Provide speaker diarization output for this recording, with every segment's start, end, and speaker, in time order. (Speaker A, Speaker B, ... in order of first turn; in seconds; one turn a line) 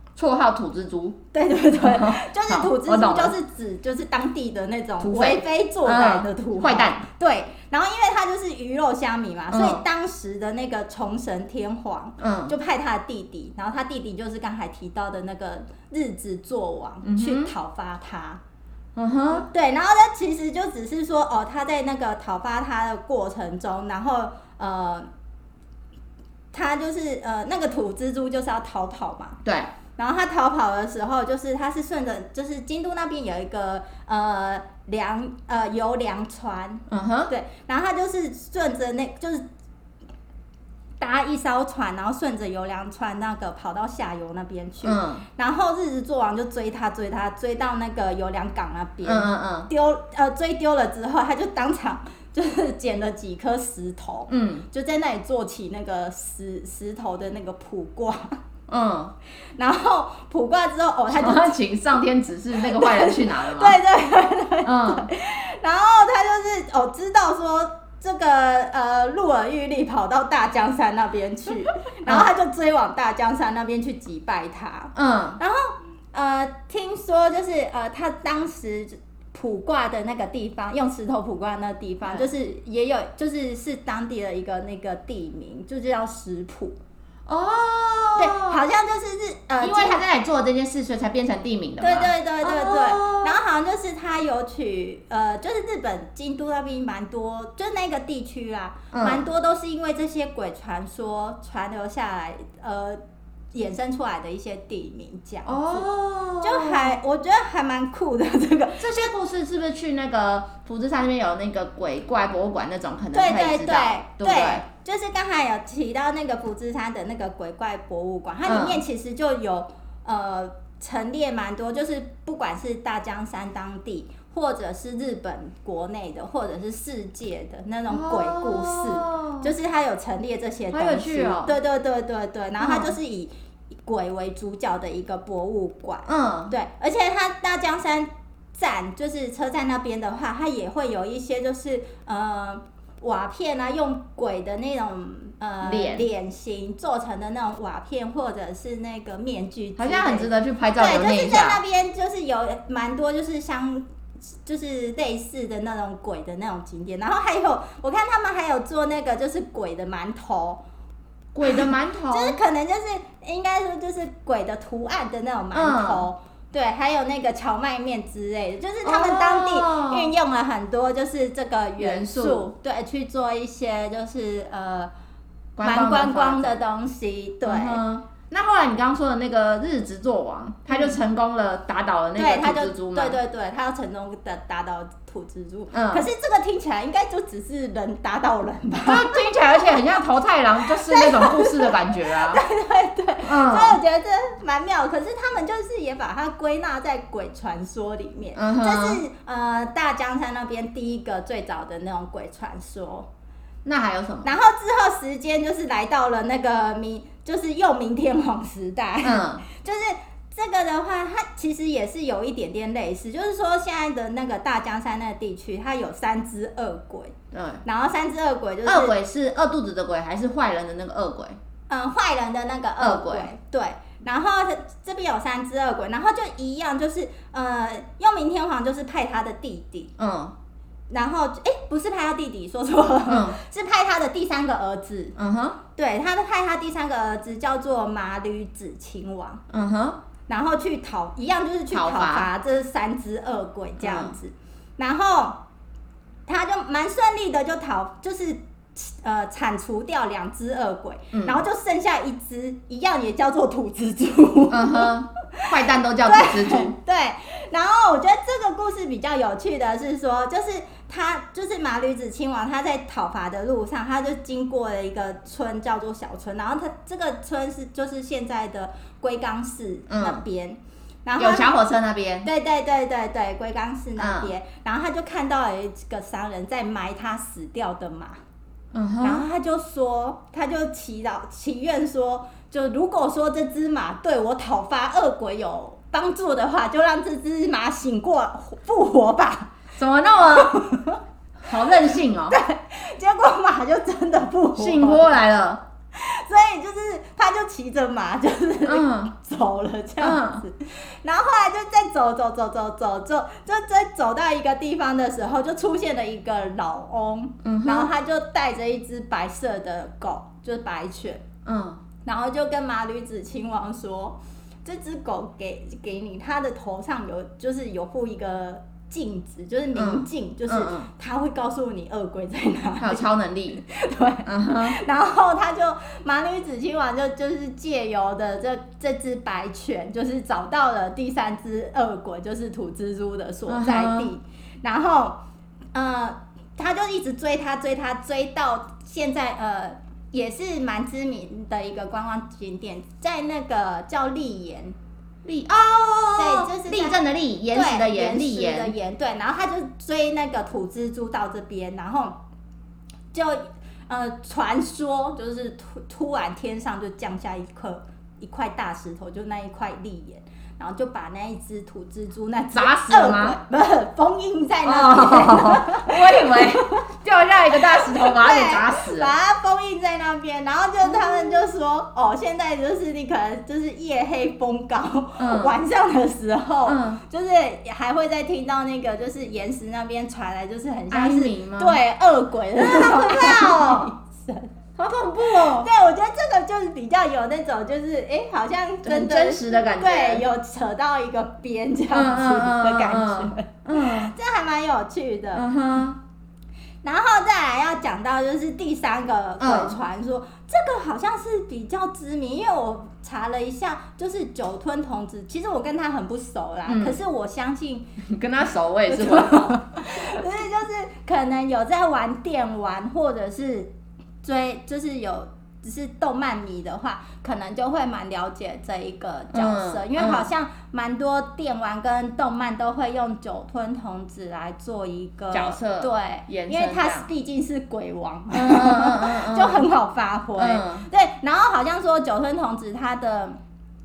Speaker A: 0.2-1.2
Speaker B: 1.3-18.4
Speaker A: 1.8-3.3
Speaker A: 5.0-7.0
Speaker A: 9.5-9.8
Speaker A: 12.2-12.5
Speaker A: 17.0-17.5
Speaker A: 18.9-19.5
Speaker B: 19.4-25.1
Speaker B: 26.5-29.4
Speaker A: 29.4-29.7
Speaker B: 30.0-39.4
Speaker A: 36.9-37.3
Speaker B: 41.0-58.4
Speaker A: 44.8-45.2
Speaker A: 49.0-49.7
Speaker A: 54.3-54.6
Speaker A: 58.7-59.1
Speaker B: 59.6-61.6
Speaker A: 61.1-63.8
Speaker B: 62.6-86.8
Speaker A: 64.6-65.1
Speaker A: 74.9-75.4
Speaker A: 87.3-88.6
Speaker B: 88.2-90.0
Speaker A: 89.6-93.4
Speaker B: 91.8-103.0
Speaker A: 98.9-99.2
Speaker B: 103.5-105.9
Speaker A: 105.4-107.0
Speaker B: 106.4-109.1
Speaker A: 108.8-114.6
Speaker B: 113.1-133.3
Speaker A: 118.4-118.8
Speaker A: 127.9-129.5
Speaker A: 130.7-131.5
Speaker A: 132.6-132.9
Speaker B: 133.8-160.6
Speaker A: 136.1-136.5
Speaker A: 145.6-146.1
Speaker A: 149.8-151.6
Speaker A: 161.3-162.4
Speaker B: 161.4-174.9
Speaker A: 165.5-166.1
Speaker A: 168.8-170.1
Speaker A: 171.8-172.4
Speaker A: 175.6-176.6
Speaker B: 175.6-177.8
Speaker A: 177.4-183.2
Speaker B: 180.7-180.9
Speaker B: 182.2-189.8
Speaker A: 185.7-186.1
Speaker A: 188.8-192.4
Speaker B: 190.6-203.1
Speaker A: 193.2-193.8
Speaker A: 198.3-199.0
Speaker A: 203.6-204.3
Speaker B: 204.2-218.9
Speaker A: 209.0-209.4
Speaker A: 217.3-217.6
Speaker A: 218.6-221.4
Speaker B: 221.7-229.9
Speaker A: 222.8-223.3
Speaker A: 230.0-230.3
Speaker B: 230.9-235.2
Speaker A: 233.1-233.4
Speaker A: 235.2-235.6
Speaker B: 235.8-239.4
Speaker A: 239.5-240.0
Speaker B: 240.3-245.4
Speaker A: 241.7-242.3
Speaker A: 243.8-244.1
Speaker B: 246.3-255.5
Speaker A: 251.1-251.4
Speaker A: 254.5-256.8
Speaker B: 256.0-271.5
Speaker A: 269.9-270.2
Speaker A: 271.2-272.3
Speaker B: 272.2-278.2
Speaker A: 274.0-274.3
Speaker A: 278.7-279.2
Speaker B: 279.0-289.5
Speaker A: 289.8-290.6
Speaker B: 290.3-295.1
Speaker A: 291.4-292.4
Speaker A: 294.6-295.6
Speaker B: 295.9-311.2
Speaker A: 298.6-299.1
Speaker A: 300.0-300.4
Speaker A: 307.4-307.9
Speaker A: 311.4-311.8
Speaker B: 312.1-335.2
Speaker A: 319.8-320.9
Speaker A: 322.8-323.6
Speaker A: 324.2-324.8
Speaker A: 333.5-334.1
Speaker B: 335.7-344.8
Speaker A: 345.2-348.7
Speaker B: 346.1-352.1
Speaker B: 353.1-366.9
Speaker A: 362.5-363.4
Speaker A: 364.6-369.1
Speaker B: 367.5-384.5
Speaker A: 370.9-371.3
Speaker A: 375.2-375.6
Speaker A: 376.6-377.0
Speaker A: 380.9-381.8
Speaker A: 382.6-383.9
Speaker A: 384.8-385.7
Speaker B: 385.2-395.5
Speaker A: 388.9-390.2
Speaker A: 391.9-394.1
Speaker A: 395.3-396.0
Speaker B: 396.8-407.9
Speaker A: 399.4-399.8
Speaker A: 406.6-407.0
Speaker A: 408.0-409.6
Speaker B: 408.9-413.7
Speaker B: 414.2-433.4
Speaker A: 419.3-420.3
Speaker A: 425.3-427.1
Speaker A: 428.3-429.6
Speaker A: 430.4-430.9